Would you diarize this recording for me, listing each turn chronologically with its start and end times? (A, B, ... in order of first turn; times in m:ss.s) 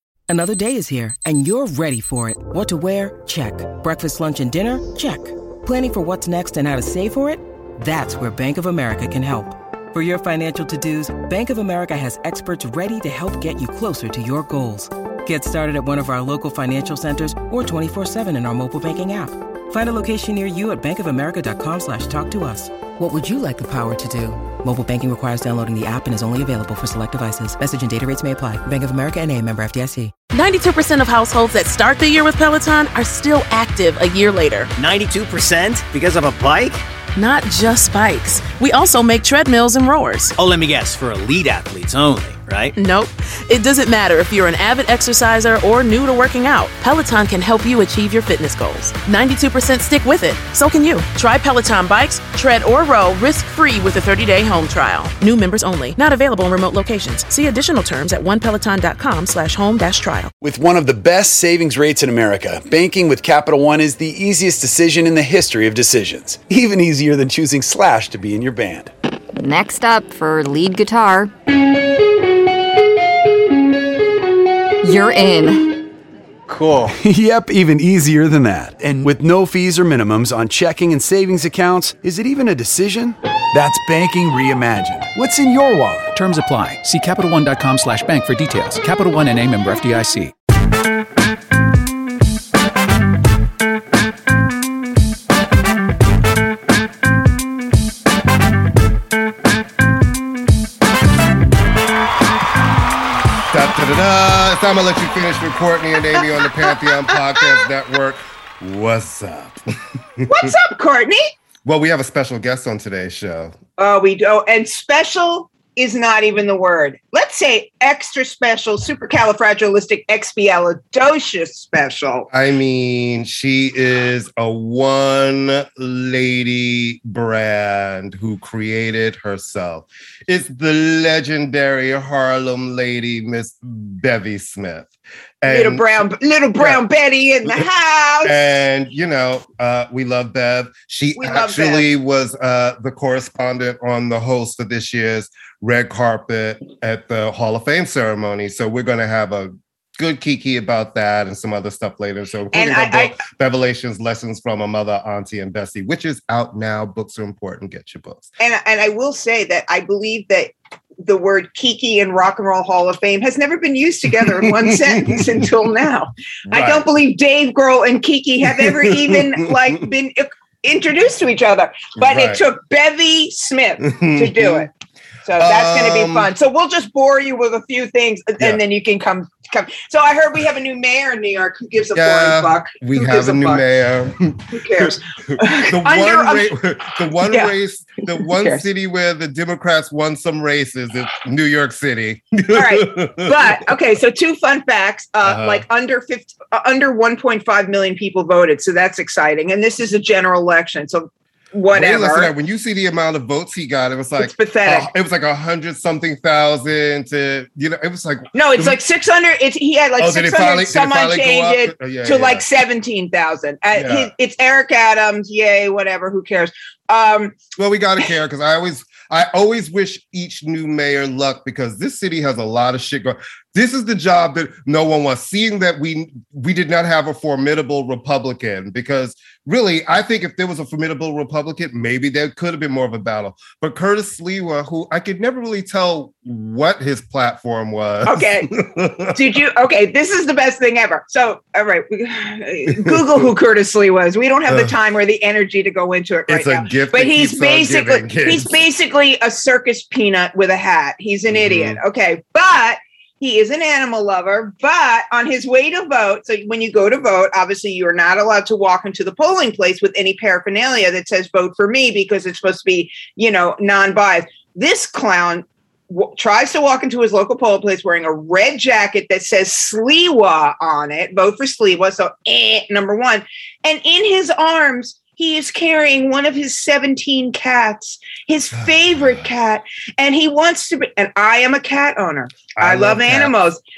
0:00.3-0:30.1 A
0:30.3-0:34.7 B
0:34.8-0:36.8 C
0:37.2-0:40.3 B
0:40.4-0:42.7 C
0:42.8-1:00.3 B
1:00.4-1:08.9 D
1:09.4-1:11.3 E
1:14.8-1:15.7 E
1:16.5-1:26.1 D
1:26.1-1:30.3 F
1:43.5-1:49.6 G
1:46.6-1:47.6 H
1:50.2-1:50.5 G
1:50.3-1:51.3 H
1:51.6-1:53.6 G
1:53.8-2:02.3 H
2:02.3-2:15.8 G
2:15.5-2:18.4 H
2:16.6-2:16.8 G
2:18.2-2:38.3 G
2:21.2-2:21.9 H
2:32.5-2:33.2 H
2:38.4-2:54.7 H
2:44.2-2:45.4 G
2:46.5-2:46.9 G
2:48.4-2:49.8 G
2:52.0-2:52.4 G
2:53.8-2:54.7 G
2:55.2-3:03.6 H
2:55.4-2:56.3 G
3:01.9-3:13.6 G
3:04.5-3:06.5 H
3:08.2-3:08.6 H
3:12.5-3:22.3 H
3:15.2-3:15.7 G
3:21.7-3:28.8 G
3:24.2-3:24.9 H
3:28.3-3:37.4 H
3:30.0-3:32.5 G
3:33.8-3:34.1 G
3:37.6-3:59.2 G
3:58.0-3:58.5 H
3:59.1-4:43.6 H
4:02.7-4:03.3 G
4:04.5-4:04.8 G
4:06.3-4:08.6 G
4:11.3-4:11.8 G
4:38.5-4:39.2 G
4:42.6-4:43.4 G